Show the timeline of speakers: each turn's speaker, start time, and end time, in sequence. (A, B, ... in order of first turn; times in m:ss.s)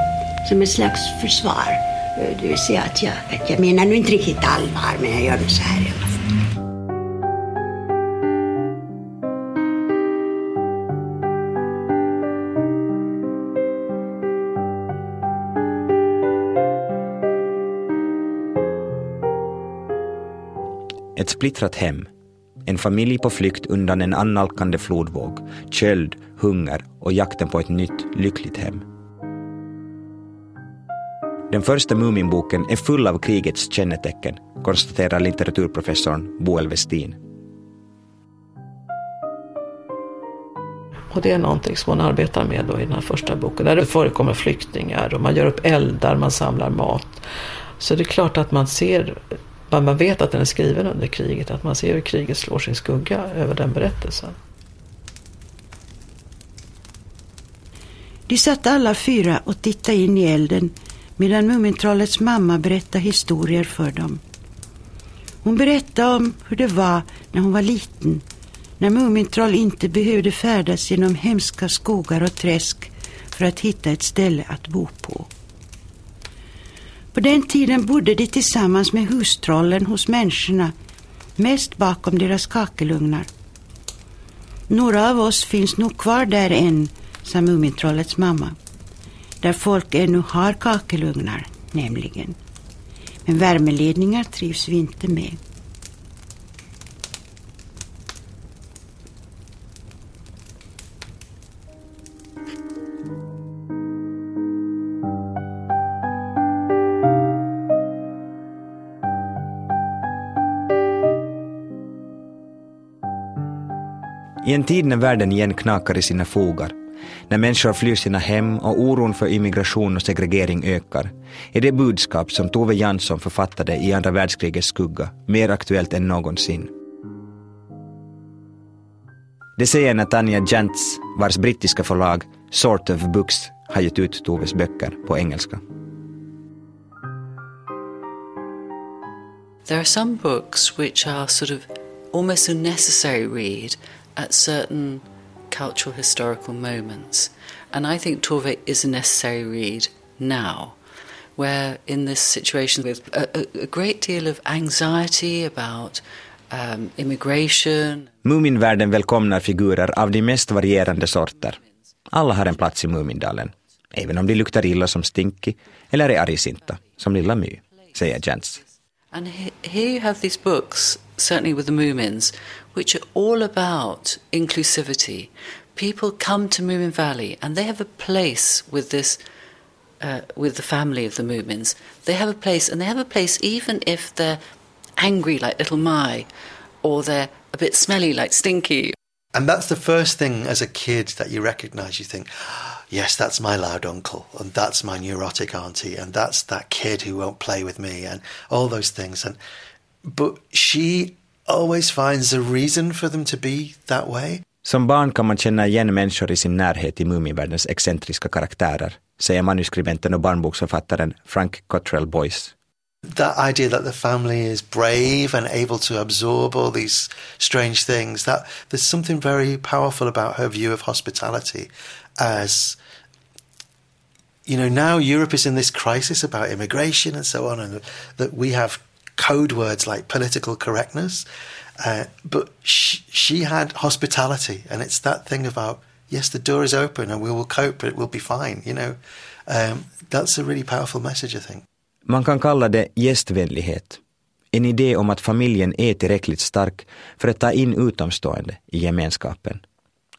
0:00.4-0:06.1 A
0:21.2-0:22.1 B
0:22.6-0:28.8 B
0:31.5-0:37.2 B
0:41.1-0:47.2 C
0:47.8-0:54.4 C
0:58.3-1:04.2 A
1:05.4-1:08.2 A
1:08.8-1:15.3 A
1:17.1-1:20.7 A
1:21.4-1:23.3 A
1:24.7-1:28.6 A
1:29.4-1:32.4 A
1:33.2-1:35.4 A
1:54.4-1:56.7 B
1:57.3-2:06.7 B
2:09.6-2:15.6 B
2:19.6-2:30.8 D
2:31.4-2:38.1 D
2:38.2-2:41.6 B
2:42.1-2:48.6 B
2:49.1-2:59.2 D
3:00.0-3:04.4 D
3:05.0-3:06.3 D
3:06.8-3:09.0 D
3:09.3-3:19.4 E
3:20.0-3:24.4 E
3:24.6-3:32.5 B
3:33.1-3:42.8 E
3:44.4-3:51.2 E
3:51.8-4:01.6 E
4:02.1-4:04.0 B
4:04.5-4:09.6 B